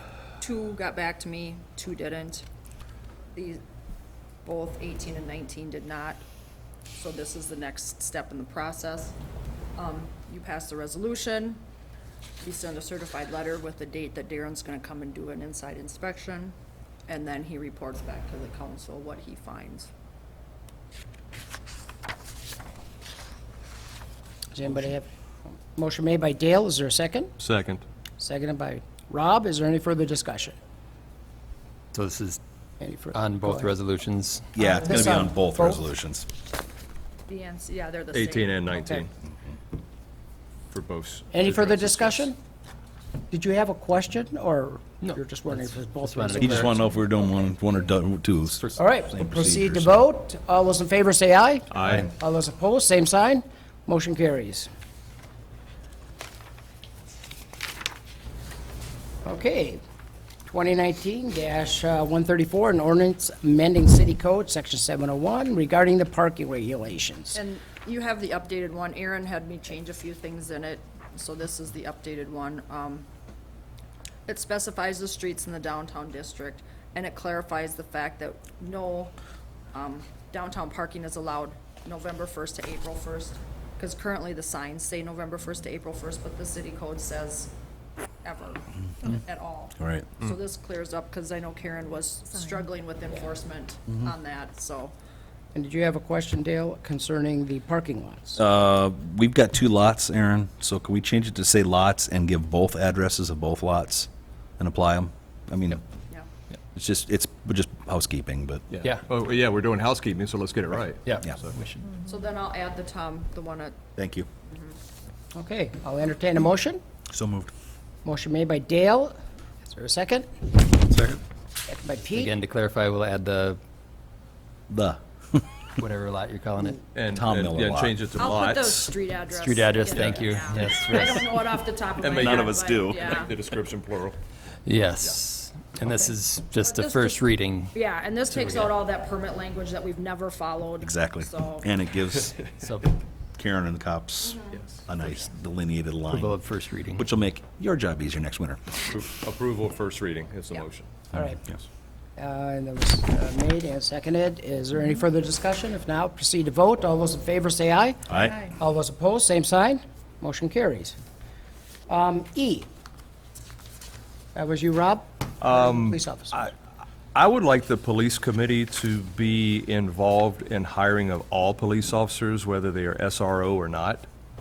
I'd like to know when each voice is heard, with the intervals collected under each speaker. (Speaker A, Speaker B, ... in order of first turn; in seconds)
Speaker A: 0.4-2.5, 3.3-3.6, 4.4-6.2, 7.0-9.1, 9.8-11.6, 12.4-16.6, 17.1-19.9, 37.3-38.8, 67.3-73.0, 74.3-79.1, 79.7-87.5, 88.2-94.9, 112.1-113.8, 114.5-114.8, 128.2-133.3, 136.6-141.7, 144.2-144.6
Speaker B: 24.5-27.3, 28.2-30.6, 32.8-33.7, 34.6-35.9, 41.3-42.4, 43.3-46.7, 48.8-54.7, 59.2-59.8, 60.5-67.4, 95.5-98.4, 115.3-116.8, 118.0-120.3, 121.7-122.3, 151.1-151.4, 152.2-160.9, 161.9-162.7, 164.3-166.5
Speaker C: 27.4-27.8, 38.1-39.1, 40.7-42.3, 51.7-52.1, 108.7-111.7, 127.0-128.9, 129.9-130.8, 132.0-134.2, 144.6-144.8, 148.8-150.9, 165.4-166.5, 167.1-174.1
Speaker D: 31.9-32.4, 33.1-34.5, 45.0-46.9, 111.0-111.9, 120.6-121.2, 122.1-123.6, 125.8-126.8, 129.3-131.3, 134.7-137.8, 138.3-138.7, 142.6-142.9, 146.1-147.0
Speaker E: 34.6-36.3, 46.4-50.0, 89.8-90.0, 98.4-105.8, 106.8-108.6, 114.0-114.3, 117.1-117.5, 124.7-125.4, 127.1-128.0, 132.2-133.3, 140.8-142.4, 143.4-146.4, 146.9-148.7, 158.1-158.5